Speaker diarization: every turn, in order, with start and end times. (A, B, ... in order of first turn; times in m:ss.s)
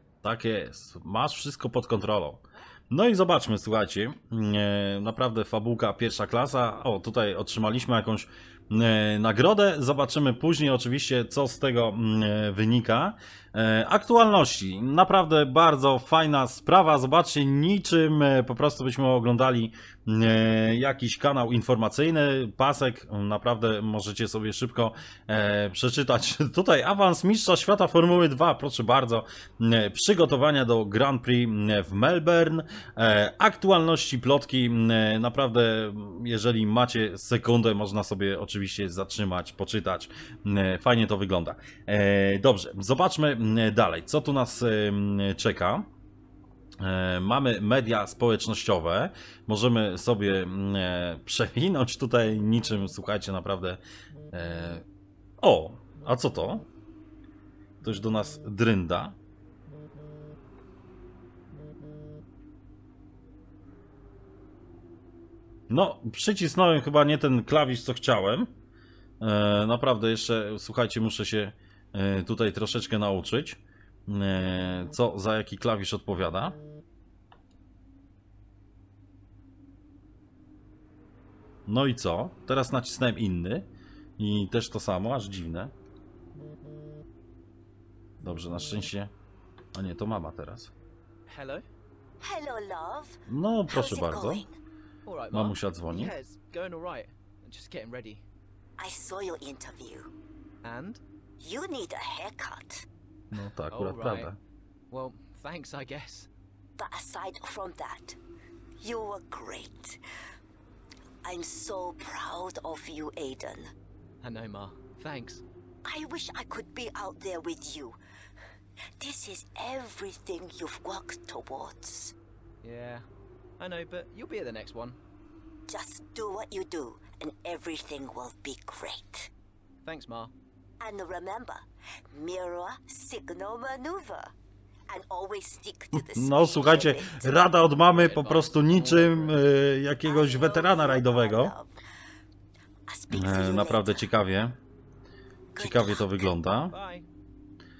0:00.2-0:45.9 A
0:46.8-0:54.8 A
0:55.4-0:56.6 A
0:57.8-0:59.2 A
1:05.7-1:08.5 A
1:09.2-1:16.6 A
1:21.7-1:23.7 A
1:24.2-1:25.7 A
1:28.2-1:29.1 A
1:29.7-1:30.7 A
1:31.3-1:31.6 B
1:32.2-1:33.2 C
1:33.3-1:34.4 A
1:33.7-1:34.6 C
1:35.0-1:38.2 B
1:35.3-1:36.1 A
1:38.8-1:40.1 C
1:40.6-1:41.0 B
1:41.4-1:42.8 C
1:43.3-1:44.4 A
1:43.7-1:44.3 B
1:44.9-1:46.3 B
1:46.8-1:48.2 C
1:48.8-1:50.0 C
1:51.2-1:53.7 C
1:54.2-1:55.4 B
1:55.8-1:58.0 C
1:59.0-2:02.1 C
2:02.6-2:03.0 B
2:03.6-2:05.0 B
2:05.7-2:09.3 C
2:09.8-2:10.3 B
2:10.8-2:14.3 C
2:14.9-2:17.4 C
2:15.9-2:21.5 A
2:17.9-2:19.4 B
2:20.0-2:21.8 C
2:22.9-2:24.0 C
2:23.1-2:24.6 A
2:25.5-2:26.3 C
2:25.6-2:26.7 A
2:26.7-2:27.0 B